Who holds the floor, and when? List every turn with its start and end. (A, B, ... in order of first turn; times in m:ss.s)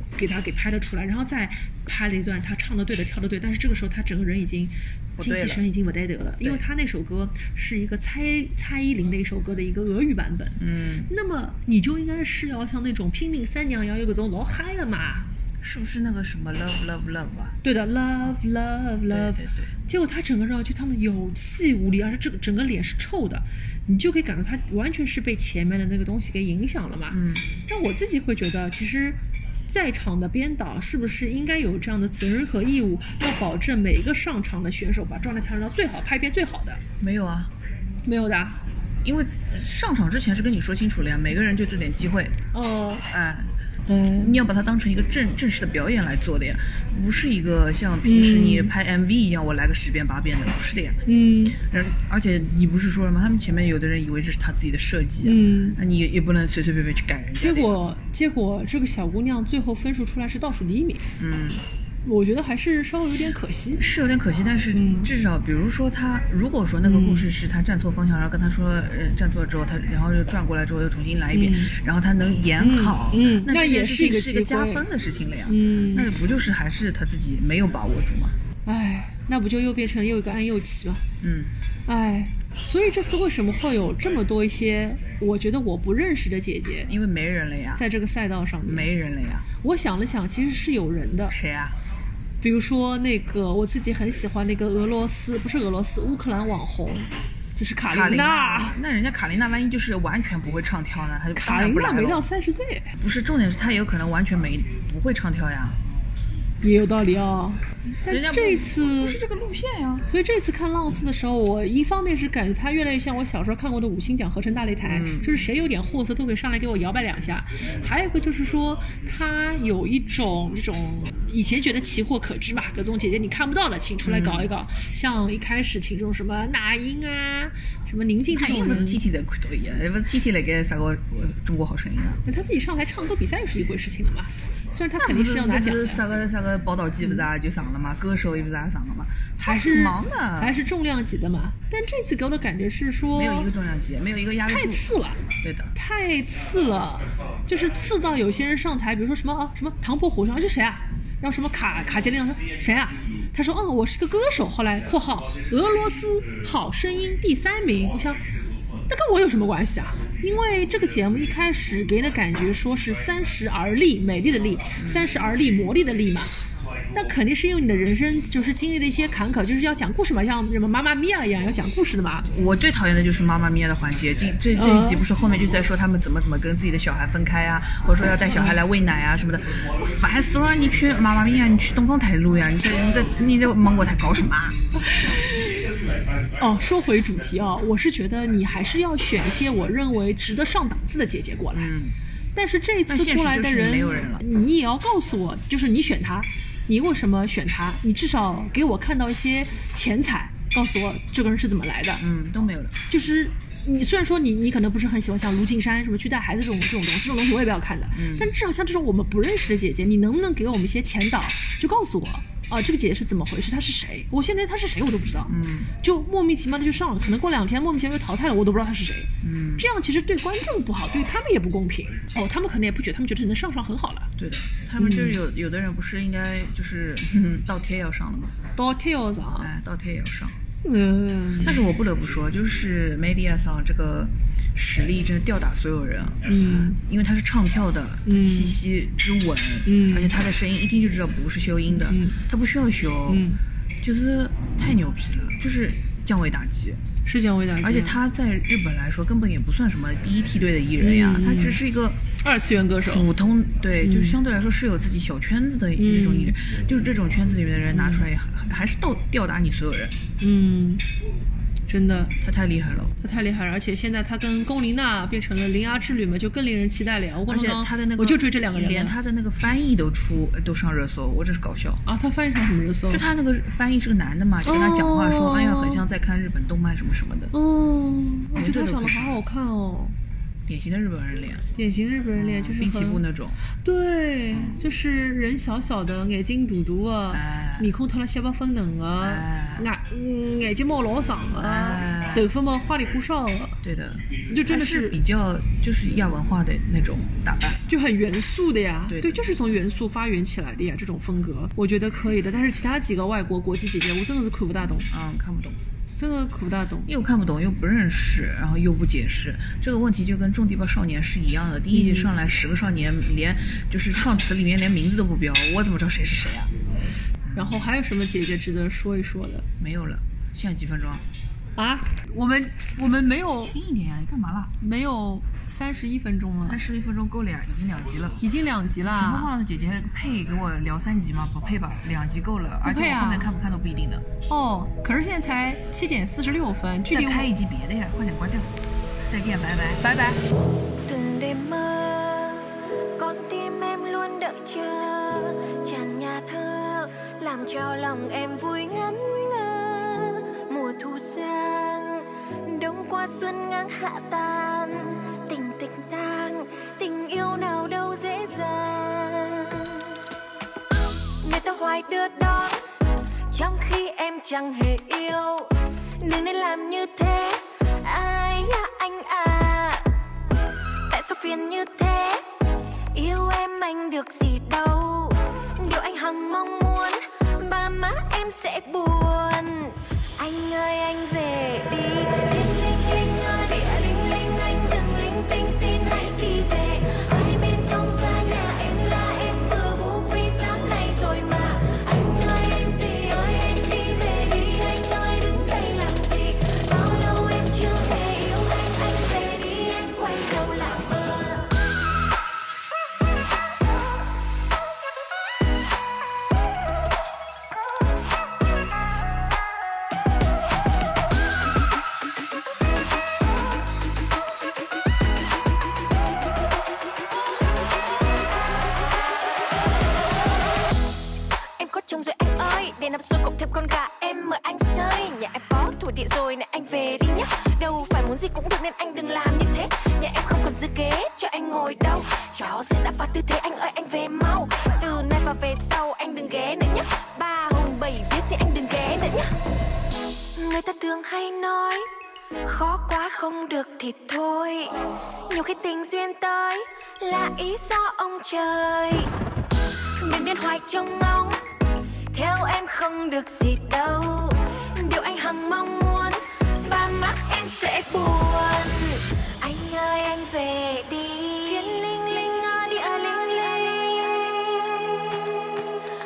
0:00.2-0:15.3 A
0:05.2-0:05.6 B
0:10.6-0:11.1 B
0:15.6-0:17.6 B
0:17.6-0:36.8 A
0:19.1-0:19.7 B
0:27.1-0:27.5 B
0:37.0-0:37.5 B
0:38.0-0:38.6 A
0:39.0-0:42.4 B
0:42.5-0:43.0 A
0:43.1-0:43.5 B
0:43.8-0:44.4 A
0:44.1-0:51.0 B
0:48.0-0:48.7 A
0:51.0-0:51.6 A
0:51.5-0:57.8 B
0:55.2-0:55.8 A
0:57.3-1:01.1 A
1:01.2-1:01.6 B
1:02.0-1:03.9 A
1:03.8-1:18.4 B
1:04.7-1:05.1 A
1:06.8-1:07.3 A
1:11.3-1:11.7 A
1:12.6-1:14.9 A
1:15.5-1:16.1 A
1:18.6-1:21.0 A
1:21.2-1:21.5 B
1:21.8-1:26.9 A
1:26.9-1:27.8 B
1:27.8-1:28.9 A
1:28.6-1:29.5 B
1:29.6-1:31.4 A
1:31.3-1:31.8 B
1:32.4-1:38.8 A
1:37.9-1:42.3 B
1:41.3-1:42.9 A
1:43.0-1:45.8 B
1:46.6-1:49.2 A
1:48.0-1:50.1 B
1:50.1-2:09.0 A
1:54.8-1:55.5 B
2:04.0-2:04.5 B
2:08.3-2:12.2 B
2:12.2-2:16.0 A
2:15.0-2:20.6 B
2:17.0-2:17.3 A
2:19.4-2:23.5 A
2:23.1-2:24.9 B
2:24.4-2:25.2 A
2:25.4-2:25.7 B
2:25.7-2:38.2 A
2:38.9-2:46.3 A
2:44.8-2:45.1 B
2:46.9-2:52.3 A
2:52.3-3:04.6 B
2:54.5-2:55.0 A
2:58.2-2:58.6 A
3:04.8-3:05.6 A
3:06.3-3:11.7 A
3:11.6-3:12.0 B
3:12.3-3:22.0 A
3:12.9-3:14.2 B
3:22.0-3:22.8 B
3:22.9-3:44.1 A
3:27.9-3:28.3 B
3:35.3-3:35.7 B
3:39.2-3:39.7 B
3:44.2-3:48.4 B
3:44.8-3:45.2 A
3:48.5-3:49.5 A
3:49.4-3:50.4 B
3:50.6-3:51.7 A
3:51.4-4:03.3 B
3:56.2-3:56.8 A
3:58.0-3:58.6 A
3:59.6-4:00.1 A
4:01.7-4:02.2 A
4:03.1-4:03.4 A
4:03.8-4:06.8 B
4:07.0-4:08.0 A
4:07.6-4:12.0 B
4:10.8-4:11.6 A
4:12.2-4:13.1 A
4:12.8-4:20.0 B
4:13.8-4:14.2 A
4:15.8-4:16.3 A
4:17.7-4:18.1 A
4:20.2-4:20.8 A
4:21.7-4:22.2 A
4:22.2-4:22.9 B
4:23.0-4:29.0 A
4:27.3-4:31.8 B
4:31.8-4:33.0 A
4:32.9-4:37.3 B
4:34.4-4:35.8 A
4:37.3-4:40.0 A
4:38.3-4:39.2 B
4:40.5-4:41.4 B
4:41.5-4:53.6 A
4:42.1-4:43.4 B
4:44.3-4:44.6 B
4:47.1-4:47.7 B
4:49.0-4:49.7 B
4:51.4-4:52.3 B
4:53.6-4:57.6 B
4:54.3-4:55.0 A
4:57.7-5:04.9 A
4:58.9-4:59.4 B
5:04.9-5:05.6 B
5:05.9-5:06.9 A
5:06.9-5:16.5 B
5:11.7-5:12.1 A
5:17.2-5:17.7 B
5:17.3-5:19.4 A
5:19.6-5:21.0 B
5:21.6-5:23.6 A
5:23.4-5:24.6 B
5:24.6-5:26.6 A
5:26.4-5:28.2 B
5:28.2-5:29.3 A
5:28.8-5:34.0 B
5:32.6-5:33.3 A
5:34.3-5:37.3 A
5:36.9-5:38.5 B
5:39.1-5:39.9 B
5:39.8-5:40.2 A
5:40.8-6:00.0 C
6:01.2-6:02.6 C
6:03.3-6:09.9 C
6:10.9-6:12.3 C
6:12.9-6:41.6 C
7:01.6-7:19.3 C
7:20.3-7:21.9 C
7:22.4-7:24.8 C
7:25.3-7:29.1 C
7:30.0-7:31.4 C
7:32.1-7:45.6 C